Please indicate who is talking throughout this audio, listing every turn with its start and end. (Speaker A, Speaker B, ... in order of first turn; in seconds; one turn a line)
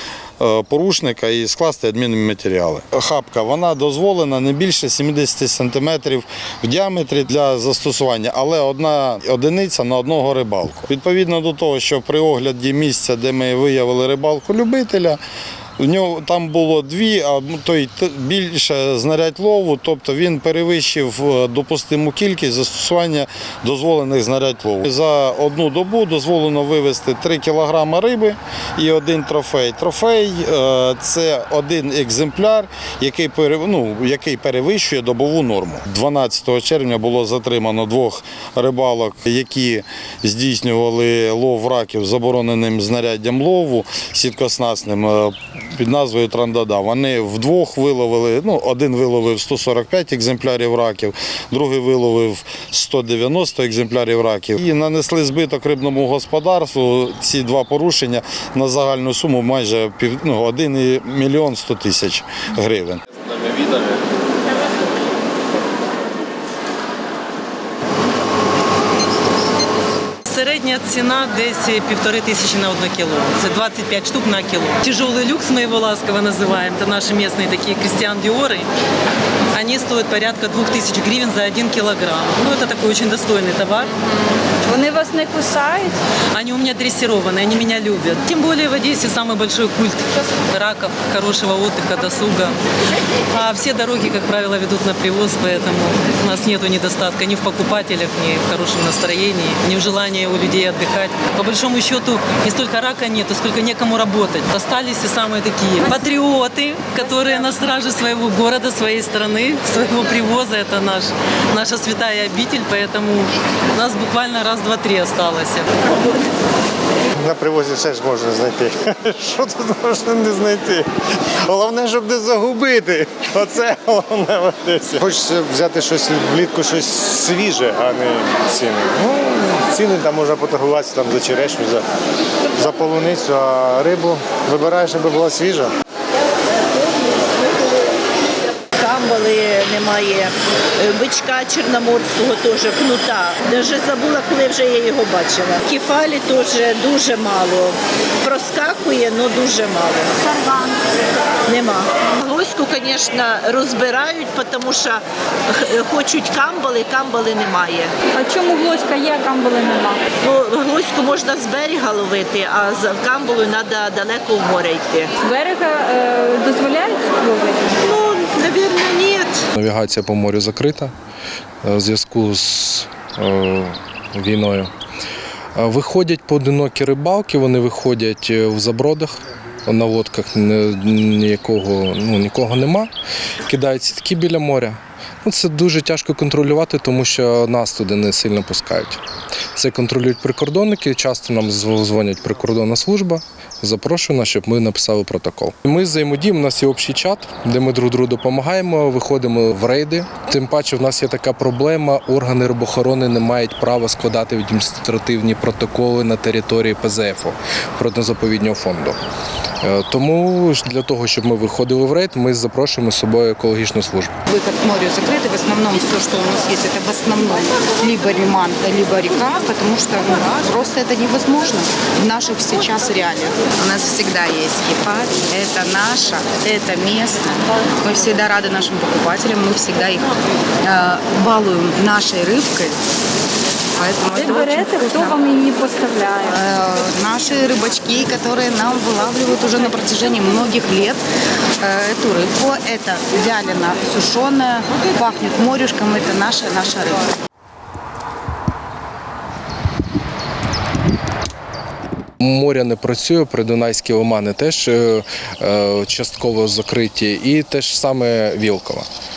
Speaker A: 0.4-15.2
Speaker A: 15.8-63.0
Speaker B: 70.3-78.6
Speaker B: 79.6-83.9
Speaker C: 84.7-86.0
Speaker B: 86.4-90.0
Speaker B: 90.5-92.5
Speaker B: 93.4-115.6
Speaker D: 117.2-120.8
Speaker D: 121.5-131.8
Speaker D: 132.6-135.7
Speaker E: 138.8-150.2
Speaker E: 151.5-155.0
Speaker E: 155.6-157.9
Speaker C: 158.2-160.0
Speaker E: 160.2-165.1
Speaker C: 165.2-167.7
Speaker E: 167.8-169.4
Speaker F: 169.6-170.9
Speaker F: 171.6-174.7
Speaker F: 175.6-182.9
Speaker F: 183.5-189.0
Speaker F: 189.5-209.0
Speaker F: 209.6-214.1
Speaker G: 214.3-227.3
Speaker G: 227.9-230.0
Speaker G: 230.7-232.7
Speaker G: 233.9-235.2
Speaker C: 234.1-236.3
Speaker G: 236.3-241.0
Speaker G: 241.7-246.9
Speaker F: 252.2-258.9